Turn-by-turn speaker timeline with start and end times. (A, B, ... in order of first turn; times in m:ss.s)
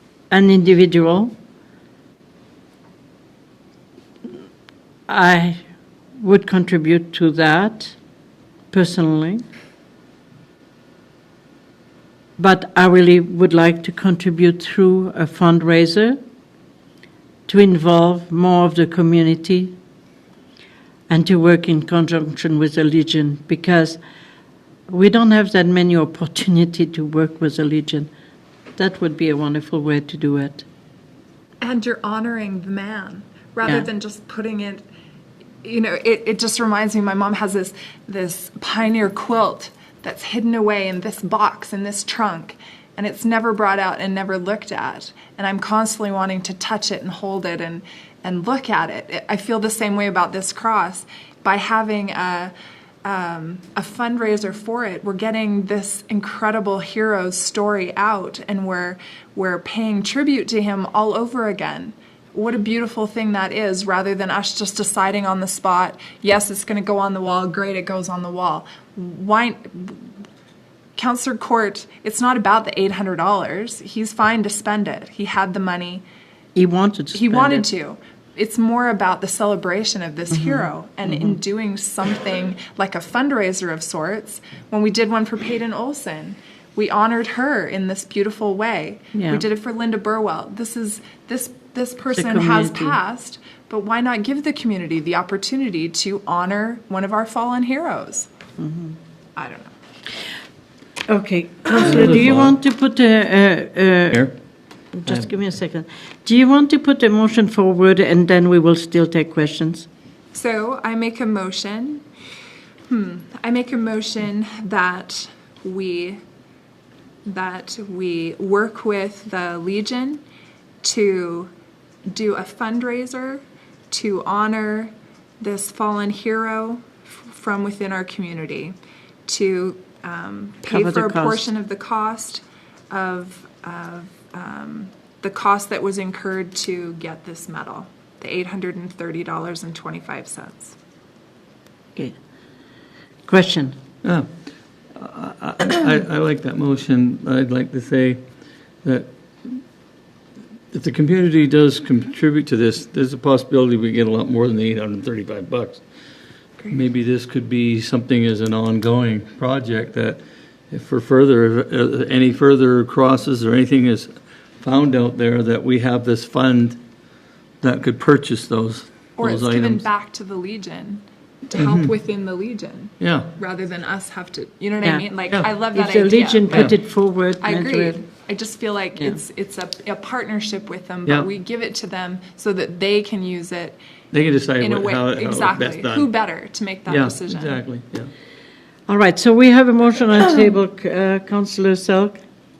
0:00.3-0:01.3 A
0:05.1-0:05.6 A
0:06.2-0:08.0 A
0:08.7-0:09.4 A
0:12.4-0:16.2 A
0:17.5-0:19.7 A
0:21.1-0:24.0 A
0:24.9-0:28.1 A
0:28.8-0:30.6 A
0:31.6-0:34.8 B
0:35.6-0:52.5 B
0:53.0-1:10.0 B
1:11.0-1:16.0 B
1:16.5-1:17.6 A
1:17.1-1:38.3 B
1:20.4-1:21.4 A
1:29.1-1:29.4 A
1:32.1-1:33.0 A
1:38.6-1:38.9 A
1:39.4-1:39.7 B
1:41.1-1:44.3 A
1:41.7-1:42.6 C
1:45.0-1:49.9 A
1:45.0-1:45.3 C
1:50.3-1:52.0 B
1:52.9-1:56.2 B
1:57.3-2:00.2 B
2:00.8-2:01.5 B
2:02.1-2:08.7 B
2:09.3-2:20.7 B
2:10.7-2:11.4 A
2:23.2-2:23.8 A
2:24.0-2:24.3 C
2:24.9-2:28.2 C
2:28.8-2:29.6 C
2:30.7-2:35.8 C
2:36.6-2:36.8 B
2:36.7-2:46.8 C
2:47.6-2:49.8 C
2:49.2-2:56.8 B
2:51.5-2:51.9 C
2:53.0-2:53.3 C
2:54.8-2:58.0 A
2:56.5-2:56.7 C
2:57.4-3:03.8 B
3:04.1-3:06.1 C
3:04.6-3:07.6 B
3:06.8-3:08.1 C
3:08.9-3:12.2 A